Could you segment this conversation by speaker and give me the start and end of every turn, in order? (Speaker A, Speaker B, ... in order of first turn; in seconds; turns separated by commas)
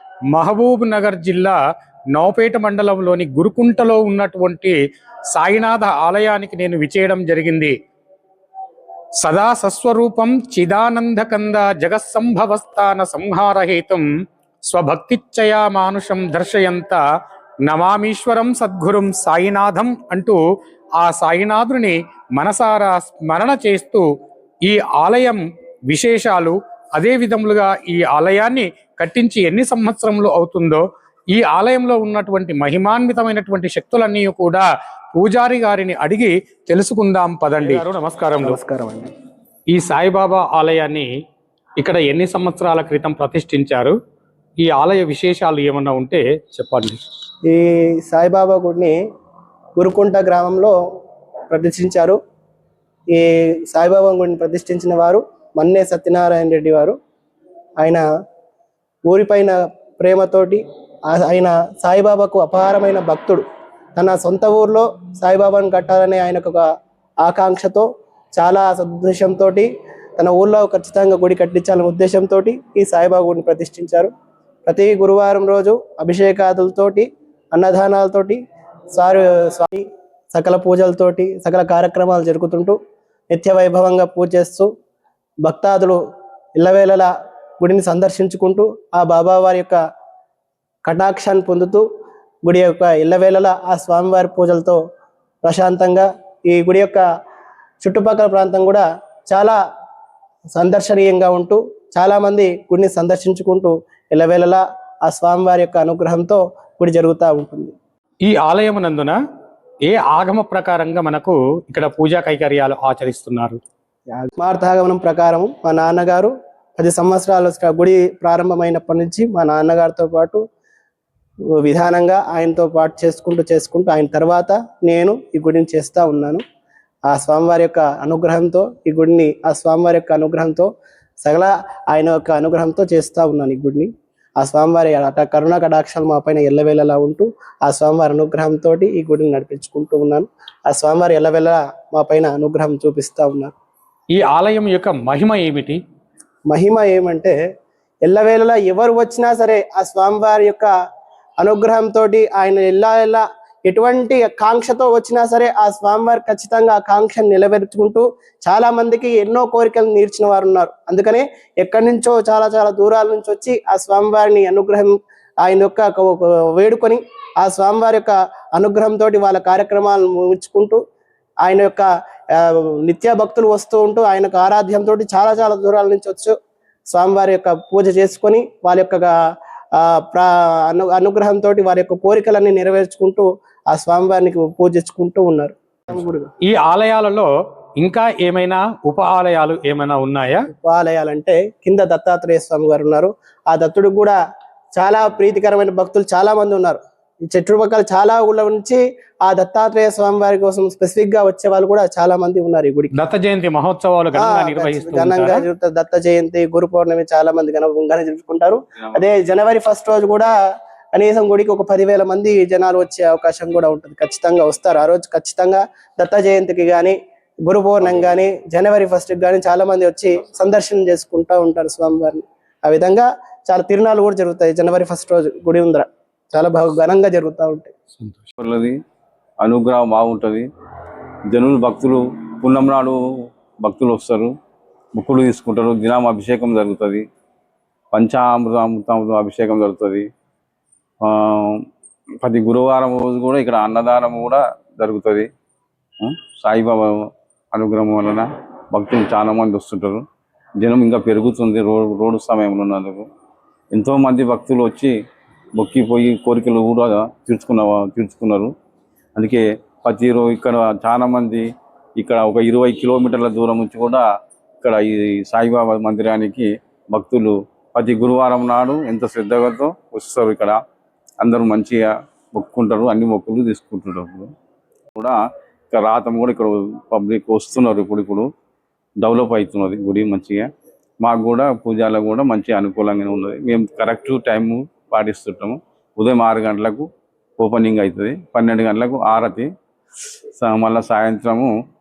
Speaker A: 0.3-1.6, Speaker A: 2.1-4.8, Speaker A: 5.3-7.8, Speaker A: 9.2-14.1, Speaker A: 14.7-17.0, Speaker A: 17.7-20.4, Speaker A: 21.0-24.1, Speaker A: 24.7-38.5, Speaker B: 38.4-39.1, Speaker A: 39.7-41.1, Speaker A: 41.8-44.0, Speaker A: 44.6-47.0, Speaker B: 47.5-49.0, Speaker B: 49.8-50.8, Speaker B: 51.5-52.2, Speaker B: 53.1-57.0, Speaker B: 57.8-58.0, Speaker B: 59.1-63.4, Speaker B: 64.0-66.7, Speaker B: 67.2-74.1, Speaker B: 74.7-78.4, Speaker B: 78.9-82.8, Speaker B: 83.3-84.7, Speaker B: 85.4-86.0, Speaker B: 86.6-89.8, Speaker B: 90.8-91.8, Speaker B: 92.5-94.8, Speaker B: 95.4-97.0, Speaker B: 97.8-99.6, Speaker B: 100.5-107.7, Speaker A: 108.3-109.2, Speaker A: 109.9-113.6, Speaker B: 114.1-120.4, Speaker B: 121.5-126.4, Speaker B: 127.1-130.7, Speaker B: 131.2-143.5, Speaker A: 144.1-145.8, Speaker B: 146.5-147.4, Speaker B: 148.0-150.7, Speaker B: 151.4-170.8, Speaker B: 171.4-176.3, Speaker B: 176.9-179.2, Speaker B: 179.8-186.3, Speaker A: 186.5-187.3, Speaker A: 187.8-190.5, Speaker B: 190.6-194.2, Speaker B: 194.8-203.0, Speaker A: 203.0-205.4, Speaker B: 204.1-210.3, Speaker B: 210.9-227.7, Speaker A: 228.0-228.3, Speaker C: 228.4-228.8, Speaker C: 229.4-230.5, Speaker C: 231.3-233.0, Speaker C: 233.6-234.3, Speaker C: 234.9-237.1, Speaker C: 237.9-240.1, Speaker C: 241.0-241.6, Speaker C: 242.2-245.3, Speaker C: 246.0-250.1, Speaker C: 250.6-253.1, Speaker C: 253.7-254.9, Speaker C: 255.6-258.5, Speaker C: 259.2-261.5, Speaker C: 262.0-264.0, Speaker C: 264.6-270.6, Speaker C: 271.2-274.3, Speaker C: 275.7-278.3, Speaker C: 279.0-280.5, Speaker C: 281.0-289.5, Speaker C: 290.4-291.5